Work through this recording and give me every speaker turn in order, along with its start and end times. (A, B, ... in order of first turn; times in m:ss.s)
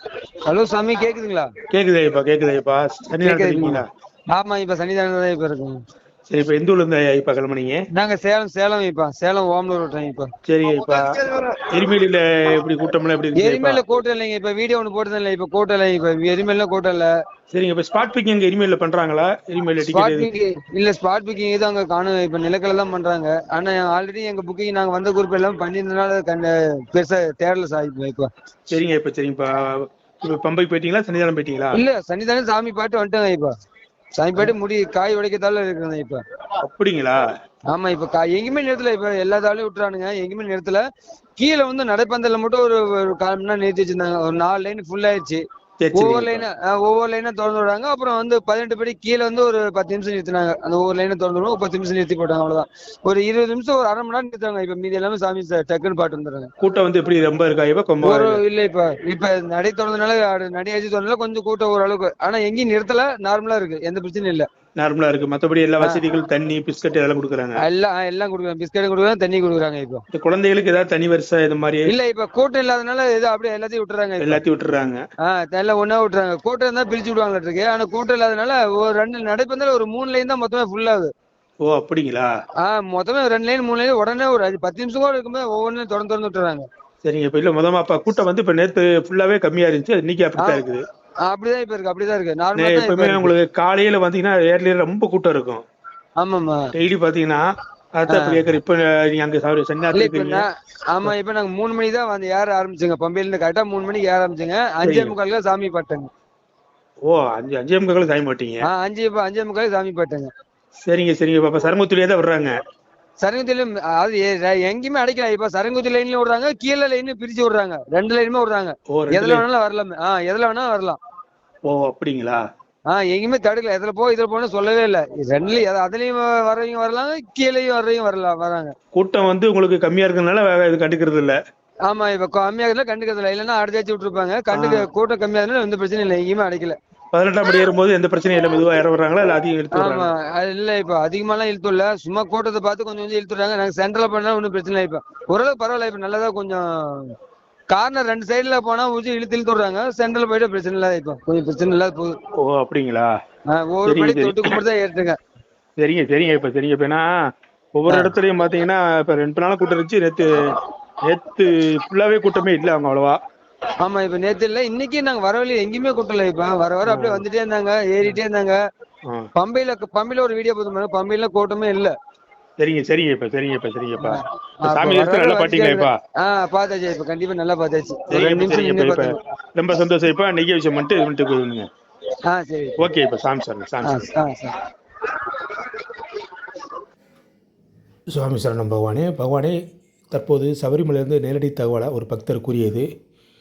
0:00.4-0:01.5 A
0:01.7-0:03.8 B
0:03.2-0:05.8 A
0:06.3-0:07.8 B
0:07.9-0:10.3 A
0:10.4-0:11.1 B
0:11.7-0:13.8 B
0:13.4-0:17.1 A
0:17.5-0:20.3 B
0:19.8-0:28.3 A
0:28.7-0:31.8 B
0:31.7-0:33.5 A
0:34.2-0:36.2 A
0:36.6-0:37.2 B
0:37.7-0:40.8 A
0:41.4-0:45.4 A
0:45.8-0:46.4 B
0:45.9-0:56.5 A
0:56.6-0:58.4 B
0:58.0-1:04.4 A
1:04.8-1:07.6 B
1:07.6-1:10.0 A
1:10.1-1:11.9 B
1:11.9-1:14.4 A
1:14.2-1:15.0 B
1:15.2-1:21.1 A
1:21.6-1:22.3 B
1:22.6-1:26.6 A
1:27.0-1:30.8 B
1:30.4-1:30.6 A
1:31.2-1:33.3 A
1:32.6-1:35.6 B
1:36.2-1:36.7 A
1:36.7-1:37.4 B
1:38.0-1:40.4 B
1:38.1-1:38.5 A
1:39.9-1:46.1 A
1:44.8-1:45.1 B
1:47.0-1:48.6 B
1:48.6-1:50.3 A
1:50.8-1:52.5 B
1:53.2-2:01.0 A
1:58.9-1:59.4 B
2:01.6-2:02.4 B
2:02.9-2:08.7 A
2:08.9-2:11.4 B
2:11.9-2:16.8 A
2:14.5-2:14.8 B
2:17.1-2:20.1 B
2:19.7-2:27.1 A
2:27.7-2:32.2 A
2:32.4-2:33.1 B
2:33.5-2:35.2 A
2:33.8-2:34.6 B
2:35.8-2:37.1 B
2:37.7-2:43.2 B
2:43.8-2:48.6 A
2:46.8-2:47.2 B
2:49.4-2:51.9 A
2:52.6-2:56.0 B
2:54.0-2:59.1 A
2:58.1-3:01.7 B
3:02.3-3:02.8 A
3:02.8-3:04.0 B
3:03.8-3:04.6 A
3:08.1-3:09.6 B
3:10.1-3:12.9 B